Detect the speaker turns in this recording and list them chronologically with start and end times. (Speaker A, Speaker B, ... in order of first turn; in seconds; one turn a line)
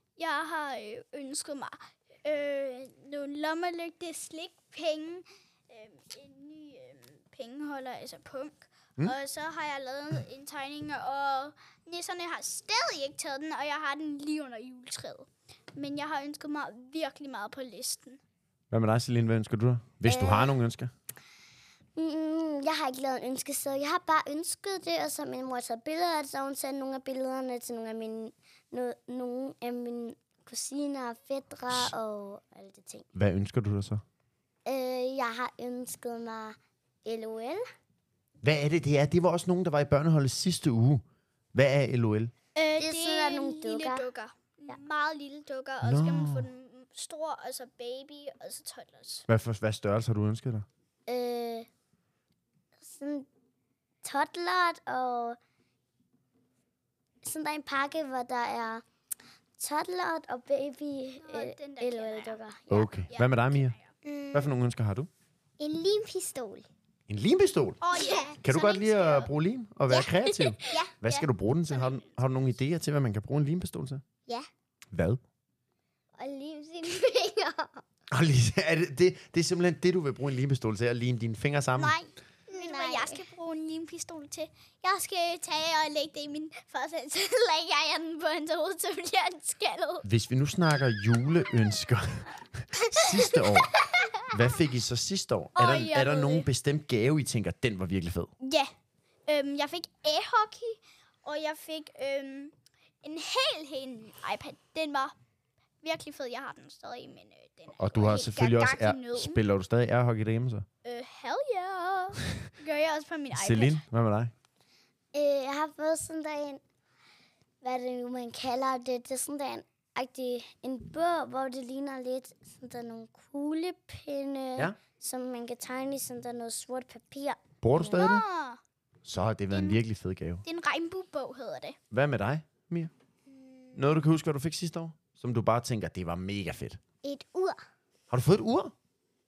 Speaker A: 0.2-18.2
Speaker B: 18.7-20.9
Speaker C: 20.1-20.6
Speaker C: 22.0-33.1
Speaker B: 31.7-31.9
Speaker B: 33.1-34.0
Speaker C: 34.6-37.6
Speaker B: 38.4-42.3
Speaker A: 42.5-49.3
Speaker C: 42.8-44.1
Speaker B: 45.8-46.5
Speaker B: 49.3-50.7
Speaker C: 51.1-51.7
Speaker C: 52.8-53.3
Speaker C: 54.0-55.4
Speaker C: 57.2-58.8
Speaker C: 59.6-62.9
Speaker A: 61.2-63.9
Speaker B: 62.7-63.8
Speaker D: 64.0-64.5
Speaker B: 64.3-65.1
Speaker D: 65.6-66.7
Speaker B: 67.1-67.8
Speaker A: 67.8-69.3
Speaker D: 67.9-68.4
Speaker B: 68.4-74.0
Speaker A: 70.2-72.2
Speaker D: 70.7-70.9
Speaker B: 74.9-75.2
Speaker D: 76.2-77.8
Speaker B: 78.1-82.0
Speaker A: 81.8-90.1
Speaker D: 82.5-83.2
Speaker B: 90.0-98.3
Speaker A: 95.5-96.5
Speaker A: 98.4-98.7
Speaker A: 99.3-105.2
Speaker A: 105.8-109.4
Speaker B: 107.8-110.7
Speaker A: 110.8-113.8
Speaker B: 113.3-114.3
Speaker C: 115.1-116.6
Speaker C: 117.6-127.4
Speaker B: 127.6-128.2
Speaker A: 127.8-128.6
Speaker B: 129.1-130.4
Speaker A: 129.5-129.8
Speaker A: 130.4-131.8
Speaker B: 131.9-132.9
Speaker D: 133.3-133.9
Speaker B: 133.7-136.8
Speaker D: 137.0-137.7
Speaker B: 138.1-138.7